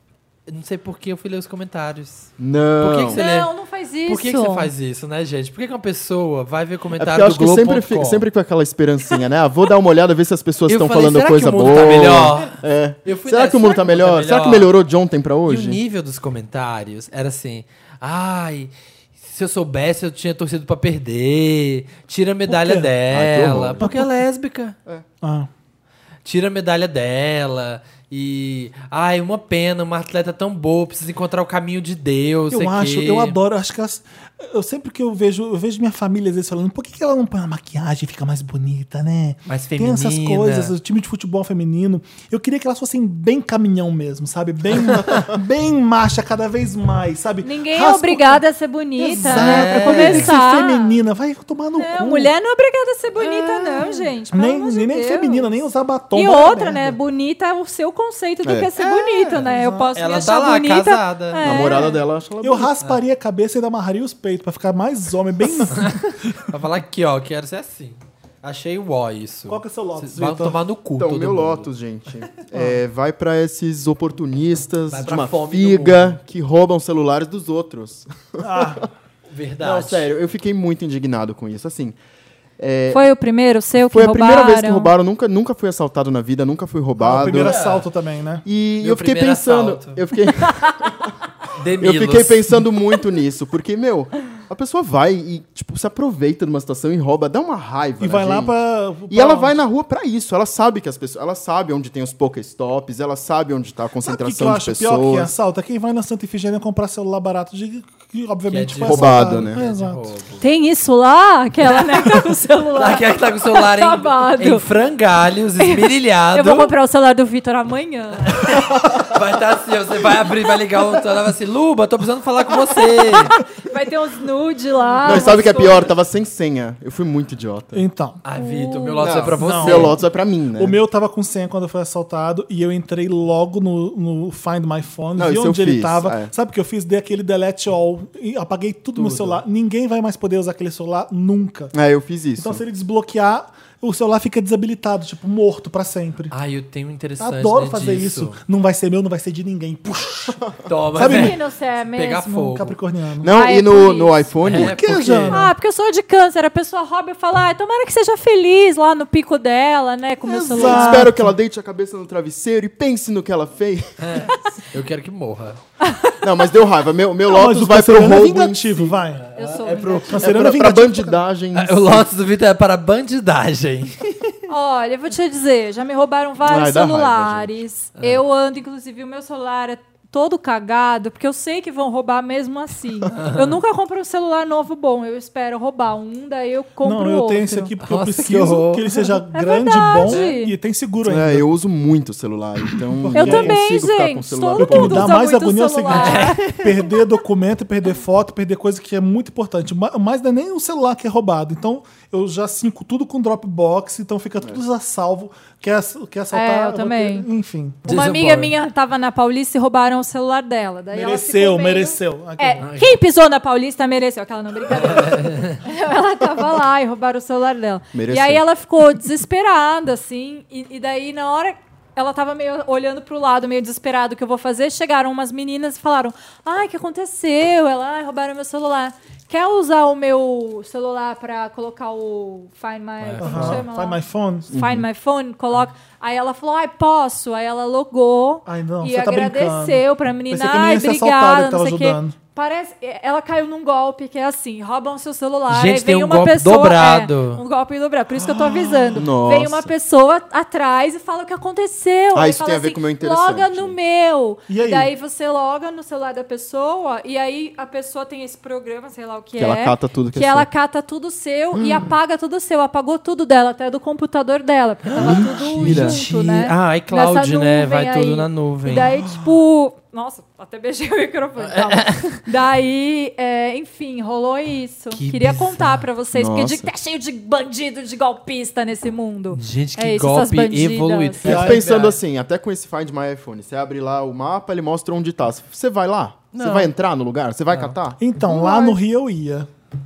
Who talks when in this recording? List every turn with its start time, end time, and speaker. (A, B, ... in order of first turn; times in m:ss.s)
0:00.5-0:03.5 A
0:02.4-0:03.2 B
0:03.1-0:04.7 C
0:04.1-0:08.2 A
0:07.0-0:15.8 B
0:10.7-0:14.7 A
0:15.5-0:24.8 A
0:22.5-0:22.9 D
0:23.1-0:23.9 B
0:23.8-0:24.1 D
0:25.2-0:25.5 D
0:26.2-0:33.4 A
0:32.5-0:48.4 D
0:39.5-0:40.7 A
0:47.4-0:51.0 C
0:49.0-0:52.3 D
0:49.2-0:50.3 A
0:51.8-0:55.5 C
0:53.3-0:54.0 A
0:54.3-0:57.0 D
0:56.1-1:02.0 C
0:58.4-0:58.7 B
0:58.8-0:59.9 D
0:59.3-1:01.8 A
1:01.4-1:02.7 B
1:02.4-1:06.4 D
1:05.7-1:11.7 A
1:09.5-1:10.6 D
1:11.0-1:18.8 B
1:12.5-1:12.8 D
1:14.9-1:16.2 A
1:18.4-1:18.9 D
1:19.3-1:20.1 A
1:19.6-1:22.0 B
1:22.6-1:23.1 B
1:22.9-1:24.9 C
1:23.8-1:27.7 B
1:27.0-1:28.4 D
1:27.3-1:27.9 A
1:28.4-1:31.1 B
1:28.8-1:30.0 A
1:31.6-1:32.5 A
1:31.8-1:38.5 B
1:38.0-1:39.6 D
1:39.1-1:45.3 B
1:44.0-1:50.0 D
1:48.5-1:50.4 A
1:48.8-1:49.6 B
1:50.4-1:54.6 C
1:52.8-1:56.7 A
1:55.6-1:58.4 C
1:58.3-2:03.4 A
2:03.2-2:05.9 C
2:05.0-2:07.8 B
2:07.7-2:08.2 D
2:08.2-2:10.0 A
2:08.4-2:09.2 C
2:09.0-2:10.8 B
2:09.4-2:10.0 D
2:10.6-2:21.7 D
2:15.2-2:16.3 B
2:19.0-2:19.4 A
2:21.7-2:22.6 B
2:22.4-2:26.3 D
2:26.3-2:28.4 A
2:27.2-2:30.4 D
2:30.7-2:31.4 A
2:31.0-2:31.4 D
2:31.0-2:32.6 C
2:31.9-2:32.8 A
2:32.5-2:33.3 D
2:33.2-2:35.3 B
2:33.3-2:34.3 C
2:34.4-2:35.4 A
2:34.5-2:35.5 D
2:35.3-2:41.1 C
2:40.2-2:41.4 D
2:40.5-2:44.2 B
2:44.0-2:45.6 A
2:45.8-2:46.1 C
2:46.2-2:49.0 B
2:47.3-2:49.2 D
2:49.2-2:50.4 A
2:49.4-2:50.3 C
2:50.1-2:51.2 D
2:50.2-2:52.1 B
2:51.5-2:54.4 A
2:54.5-3:07.7 C
2:56.4-2:57.6 B
3:03.2-3:03.6 A
3:06.8-3:11.5 D
3:07.8-3:09.1 A
3:09.3-3:10.5 C
3:11.0-3:15.2 B
3:13.0-3:13.6 D
3:13.2-3:16.6 C
3:14.6-3:27.8 D
3:15.9-3:16.8 A
3:26.3-3:27.3 C
3:27.8-3:28.5 A
3:27.8-4:41.3 C
3:30.9-3:32.7 D
3:32.6-3:33.0 A
3:34.7-3:35.6 A
3:37.9-3:38.4 B
3:53.0-3:53.6 A
3:53.2-3:54.5 D
3:54.5-3:54.9 B
3:58.5-4:02.2 D
4:05.5-4:07.4 A
4:08.1-4:09.1 D
4:09.0-4:09.7 B
4:12.1-4:13.8 B
4:14.5-4:14.9 D
4:19.4-4:20.5 B
4:21.6-4:21.9 B
4:25.0-4:26.0 B
4:25.0-4:28.9 A
4:28.8-4:29.2 D
4:31.4-4:32.2 A
4:34.9-4:35.9 A
4:36.1-4:36.7 B
4:39.3-4:42.0 A
4:41.2-4:48.0 B
4:41.3-4:41.6 D
4:46.3-4:46.7 A
4:47.5-4:47.8 A
4:48.0-4:49.5 D
4:48.2-4:48.8 C